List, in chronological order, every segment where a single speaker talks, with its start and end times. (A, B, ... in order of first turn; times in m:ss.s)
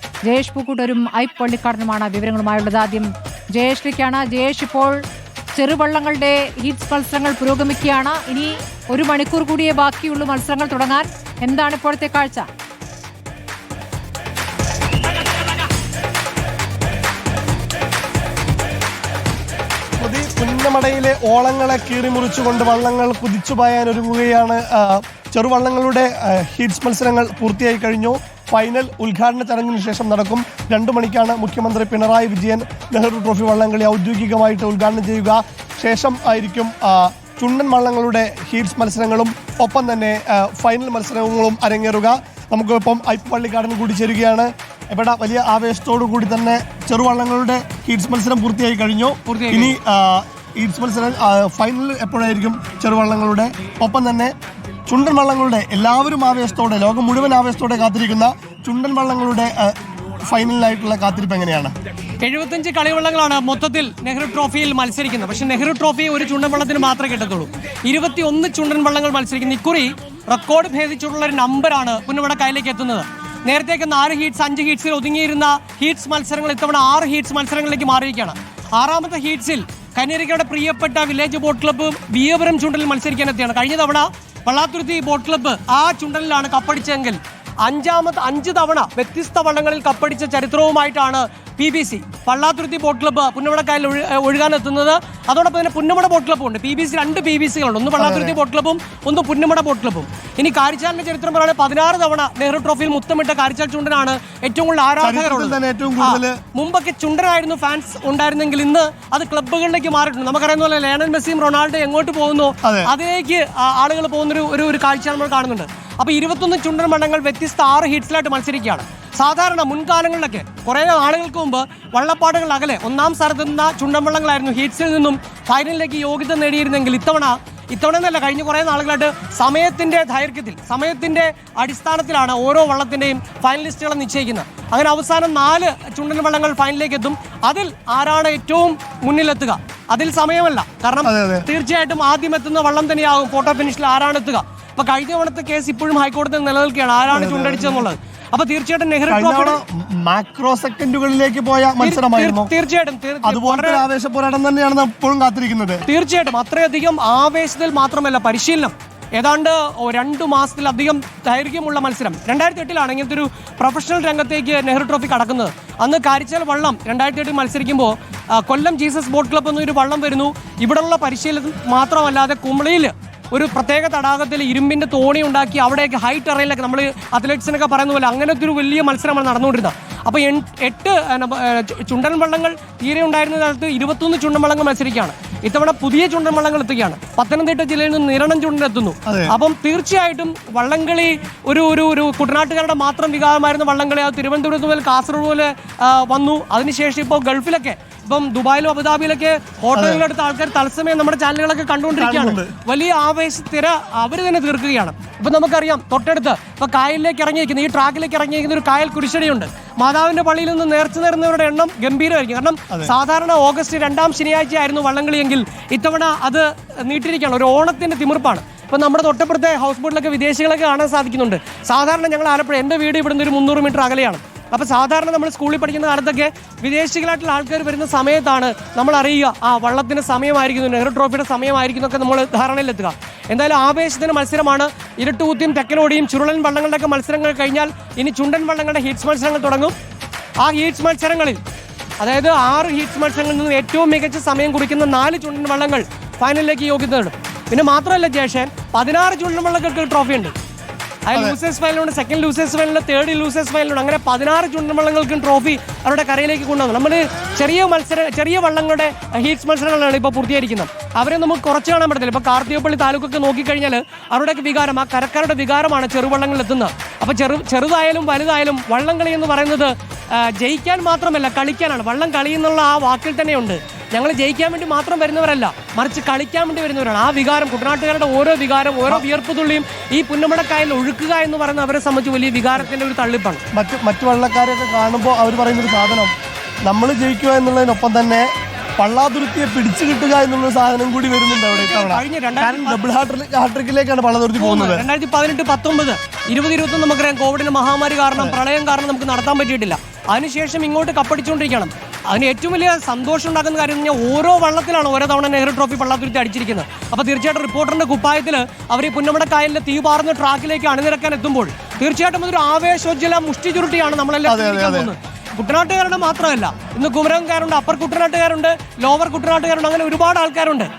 0:00.2-0:05.0 A
0:05.5-0:12.5 A
0:20.0-0:54.3 B
0:49.2-0:49.8 C
0:54.9-1:01.7 B
1:02.2-2:29.6 C
1:38.0-1:38.4 B
1:45.0-1:46.4 B
1:52.6-1:52.9 B
2:21.0-2:21.5 B
2:27.1-2:27.9 B
2:29.1-2:32.5 B
2:31.8-2:33.8 C
2:33.2-2:35.8 B
2:35.8-3:59.7 C
3:09.0-3:09.4 B
3:19.7-3:20.0 B
3:21.9-3:22.6 B
4:00.4-4:01.4 C
4:02.0-4:10.3 C
4:11.0-4:43.4 C
4:43.5-4:46.1 B
4:46.6-4:54.8 B
4:51.5-4:52.8 C
4:54.4-5:20.7 C
5:14.3-5:14.9 B